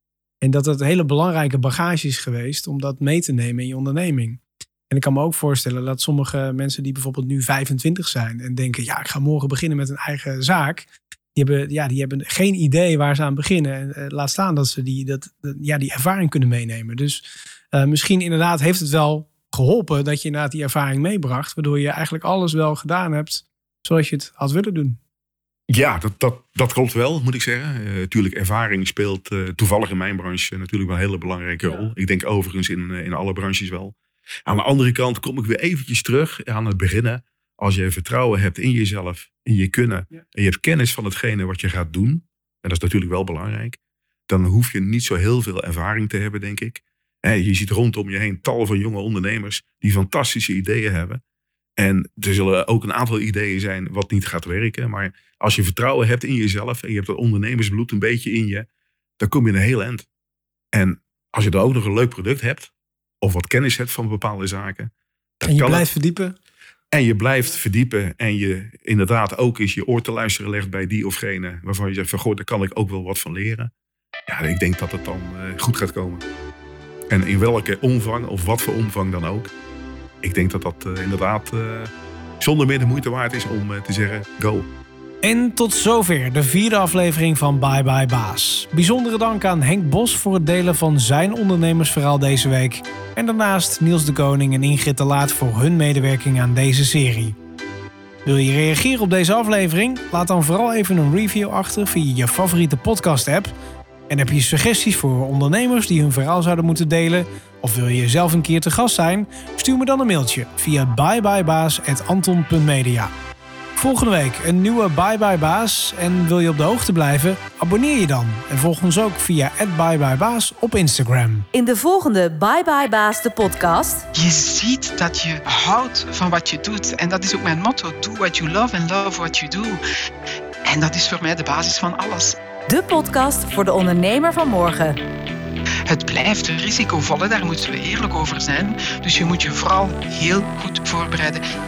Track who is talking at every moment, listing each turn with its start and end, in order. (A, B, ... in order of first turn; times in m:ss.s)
0:00.4-0:25.0 A
0:25.7-0:33.9 B
0:34.4-0:51.2 B
0:51.8-0:58.7 B
0:59.2-1:00.1 B
1:00.7-1:04.9 B
1:05.4-1:05.9 B
1:05.5-1:06.4 A
1:06.9-1:13.7 B
1:14.3-1:16.2 B
1:17.1-1:19.5 B
1:20.2-1:24.7 B
1:25.2-1:37.4 A
1:38.2-1:43.5 A
1:44.1-1:53.1 A
1:53.8-2:01.5 A
2:01.5-2:04.1 C
2:04.1-2:09.8 D
2:10.6-2:12.4 D
2:12.7-2:15.0 C
2:15.9-2:21.4 D